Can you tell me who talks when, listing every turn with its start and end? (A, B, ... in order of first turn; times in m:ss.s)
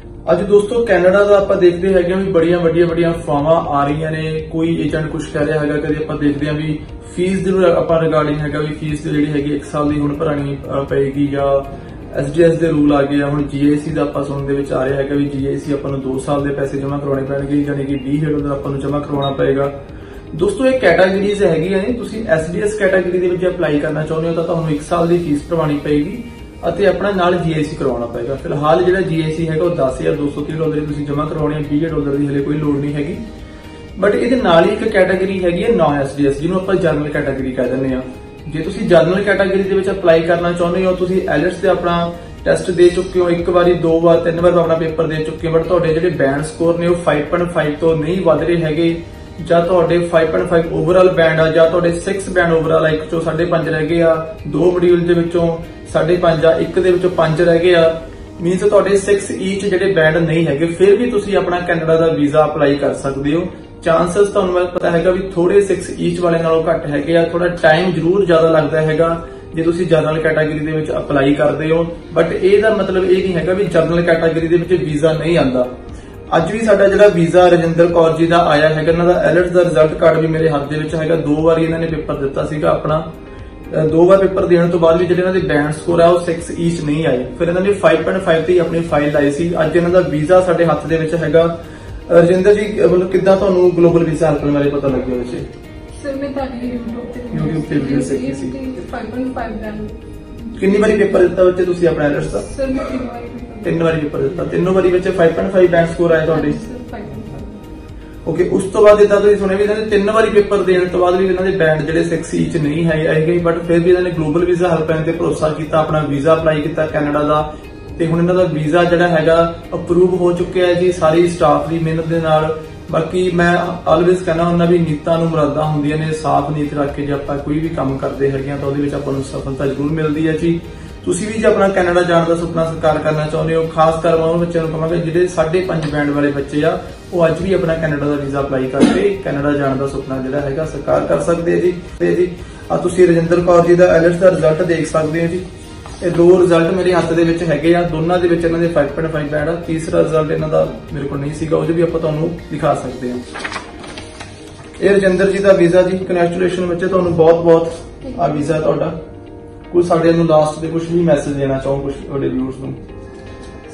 0:00.2-0:19.7 A
0:20.3-0:33.2 A
0:34.0-1:15.7 A
1:16.3-1:23.1 A
1:23.7-1:35.4 A
1:36.0-1:41.2 B
1:37.3-1:38.5 A
1:40.6-1:42.5 A
1:42.4-1:43.8 B
1:43.6-1:46.6 A
1:46.1-1:47.6 B
1:48.2-2:25.4 A
2:26.0-2:33.2 A
2:34.8-2:39.0 A
2:38.0-2:38.3 B
2:39.7-2:42.8 A